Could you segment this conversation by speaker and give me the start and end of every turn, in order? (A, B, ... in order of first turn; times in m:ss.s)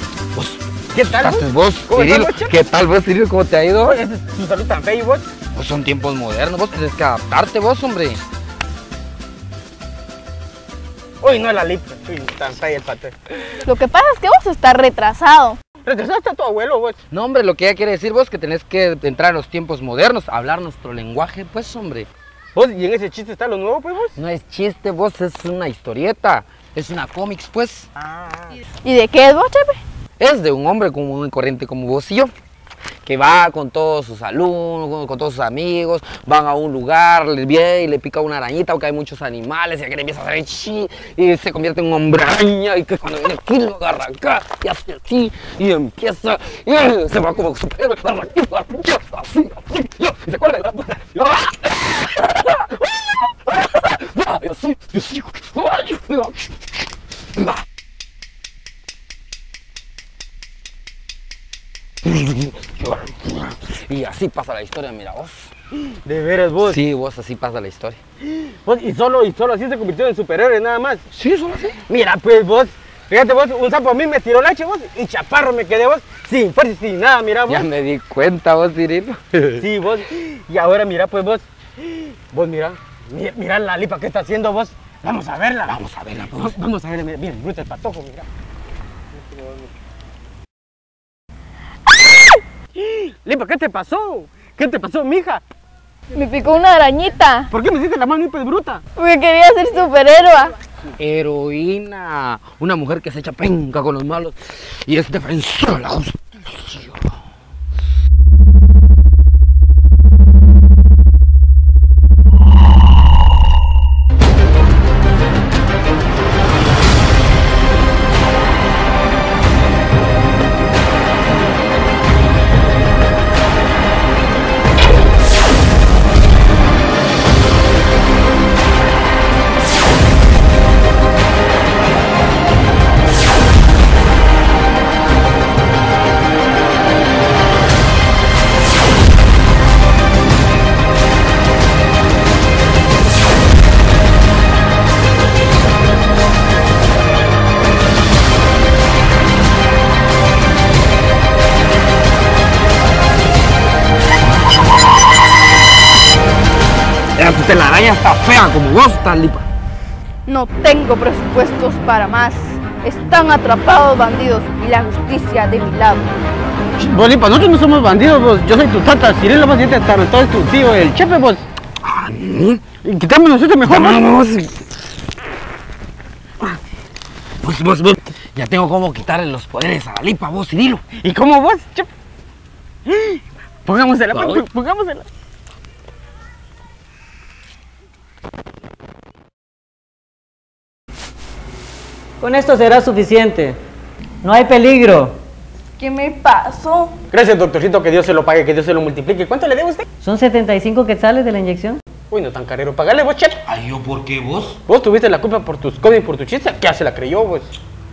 0:00.4-0:04.0 A
0:01.0-0:02.6 B
0:03.8-0:05.3 B
0:05.5-0:08.2 A
0:11.2-0:13.5 B
0:13.6-0:15.6 C
0:15.8-0:17.0 B
0:17.1-0:22.1 A
0:22.5-0:24.2 B
0:24.2-0:27.9 A
0:28.0-0:28.5 B
0:28.8-0:29.8 C
0:30.2-0:32.3 A
0:33.0-0:56.6 A
1:02.0-1:05.5 A
1:05.9-1:06.8 B
1:06.6-1:08.0 A
1:08.4-1:11.1 B
1:11.1-1:11.8 A
1:11.9-1:17.6 B
1:17.5-1:19.7 A
1:19.6-1:28.3 B
1:25.7-1:26.6 A
1:32.8-1:35.4 B
1:36.1-1:37.5 C
1:37.5-1:38.8 B
1:39.0-1:40.6 C
1:41.0-1:47.2 A
2:37.2-2:39.5 A
2:40.3-2:46.1 C
2:46.8-2:51.4 B
2:51.8-2:52.6 A
2:52.8-2:54.0 B
2:53.6-2:54.6 A
2:57.4-3:00.9 A
3:00.9-3:01.9 B
3:02.9-3:05.1 B
3:04.1-3:04.4 A
3:12.2-3:13.6 D
3:14.2-3:15.1 D
3:15.8-3:16.9 C
3:17.1-3:19.9 B
3:20.0-3:21.8 D
3:22.1-3:23.4 B
3:23.5-3:24.6 A
3:24.7-3:27.5 B